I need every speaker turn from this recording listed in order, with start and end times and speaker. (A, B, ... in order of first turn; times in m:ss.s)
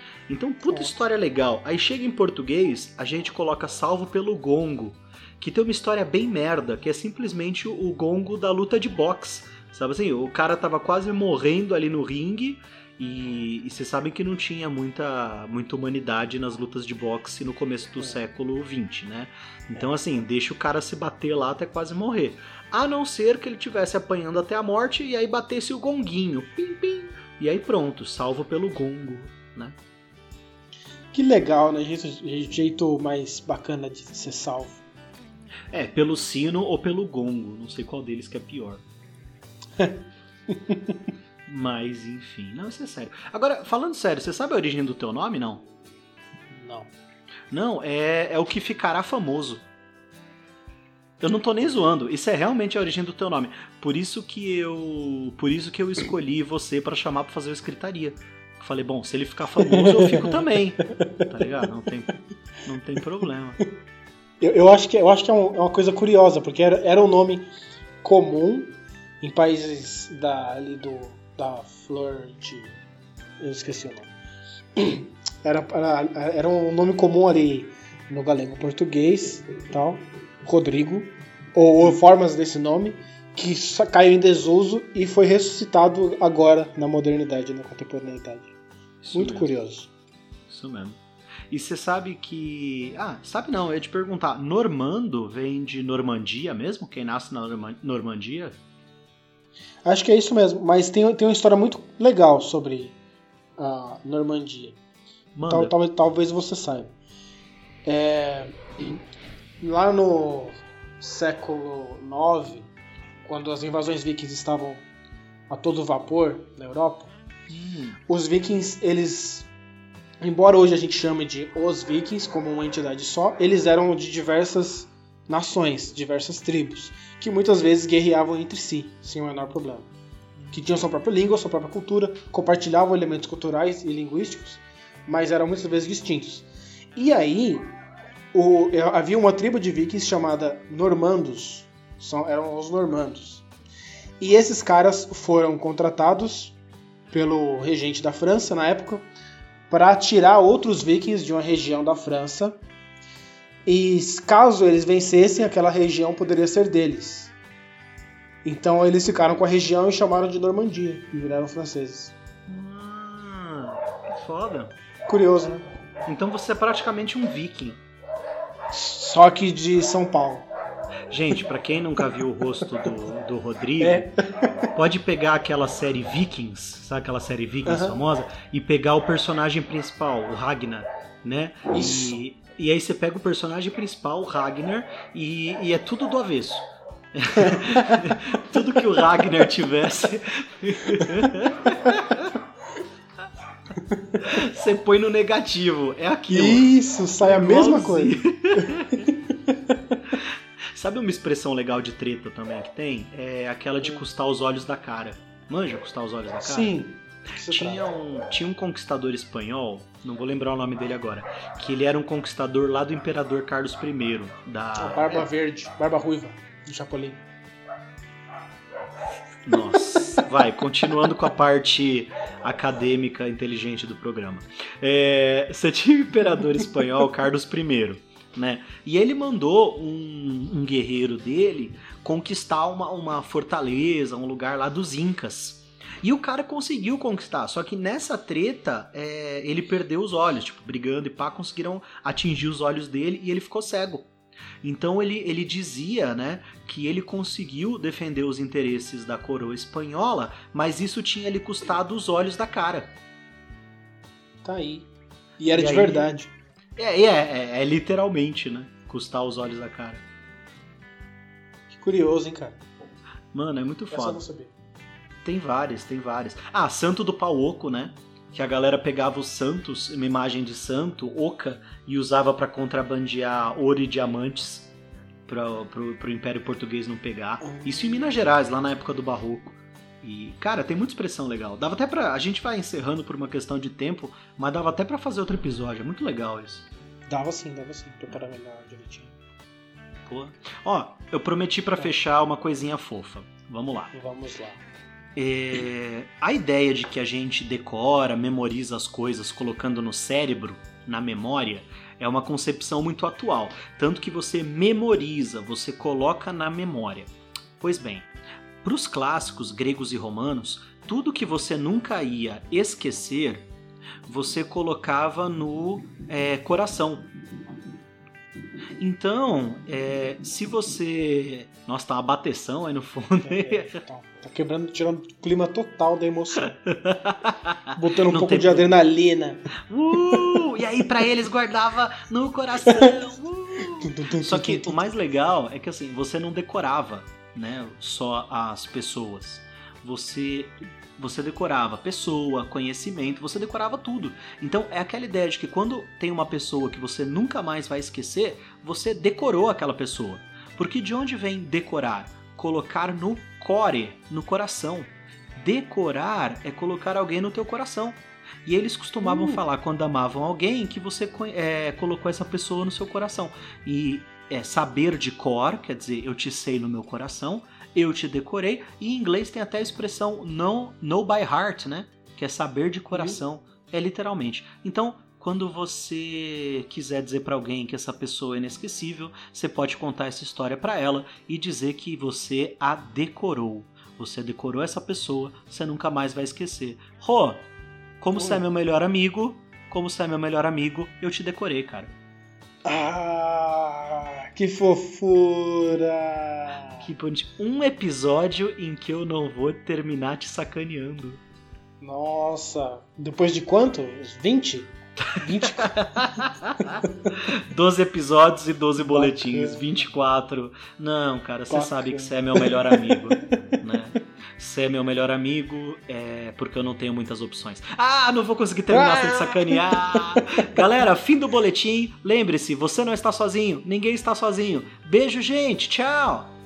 0:00.3-0:29.8 A
0:31.1-0:34.8 B
0:35.7-0:38.8 A
0:39.8-0:41.0 B
0:41.5-0:45.6 A
0:46.5-0:46.9 B
0:47.5-0:49.6 A
0:51.2-1:02.1 A
0:59.7-1:00.4 B
1:02.6-1:03.6 A
1:04.4-1:07.5 B
1:08.0-1:12.8 B
1:13.4-1:14.1 B
1:14.8-1:28.5 B
1:29.0-1:29.5 A
1:29.1-1:29.9 B
1:30.5-1:31.0 A
1:31.5-1:38.6 A
1:39.8-1:43.0 B
1:43.6-1:44.8 B
1:45.3-1:45.7 A
1:45.5-1:46.9 B
1:47.8-1:49.0 B
1:49.6-1:52.7 B
1:53.2-1:54.8 B
1:55.5-1:57.1 B
1:57.5-1:58.0 A
1:58.1-1:59.5 B
2:00.2-2:09.9 B
2:10.5-2:17.7 B
2:18.3-2:23.4 B
2:24.2-2:26.6 B
2:27.1-2:29.1 B
2:29.7-2:32.6 B
2:33.7-2:37.3 B
2:38.4-2:42.1 B
2:42.5-2:44.8 A
2:45.1-2:45.6 B
2:46.1-2:47.8 A
2:48.7-2:50.5 B
2:51.1-2:54.1 A
2:53.8-2:54.6 B
2:54.8-3:12.3 A
2:57.7-2:58.0 B
3:01.7-3:02.2 B
3:07.4-3:07.9 B
3:13.8-3:14.2 B
3:14.2-3:16.7 A
3:16.3-3:20.0 B
3:17.2-3:19.0 A
3:20.8-3:26.7 A
3:26.4-3:27.9 B
3:27.5-3:35.2 A
3:34.8-3:37.2 B
3:39.5-4:04.1 A
4:04.6-4:12.9 A
4:14.4-4:16.3 B
4:15.5-4:16.1 A
4:16.8-4:20.0 A
4:21.7-4:22.6 B
4:23.3-4:24.2 A
4:23.9-4:24.5 B
4:25.2-4:34.7 A
4:35.3-4:46.7 A
4:37.4-4:38.0 B
4:47.1-4:49.2 B
4:50.1-4:53.9 A
4:53.9-4:54.6 B
4:55.2-5:08.1 A
5:08.6-5:13.5 A
5:14.1-5:17.1 A
5:18.8-5:23.8 A
5:23.2-5:26.5 B
5:26.7-5:28.7 A
5:27.8-5:29.4 B
5:29.7-6:27.5 A
5:30.0-5:30.4 B
5:32.7-5:32.9 B
5:33.8-5:34.9 B
5:59.0-5:59.4 B
6:28.0-6:31.9 A
6:28.2-6:28.4 B
6:32.6-6:36.9 B
6:36.8-6:41.2 A
6:41.8-6:45.8 B
6:45.6-6:46.7 A
6:47.3-7:06.3 A
6:48.8-6:49.8 B
6:51.5-6:53.0 B
6:58.7-7:00.2 B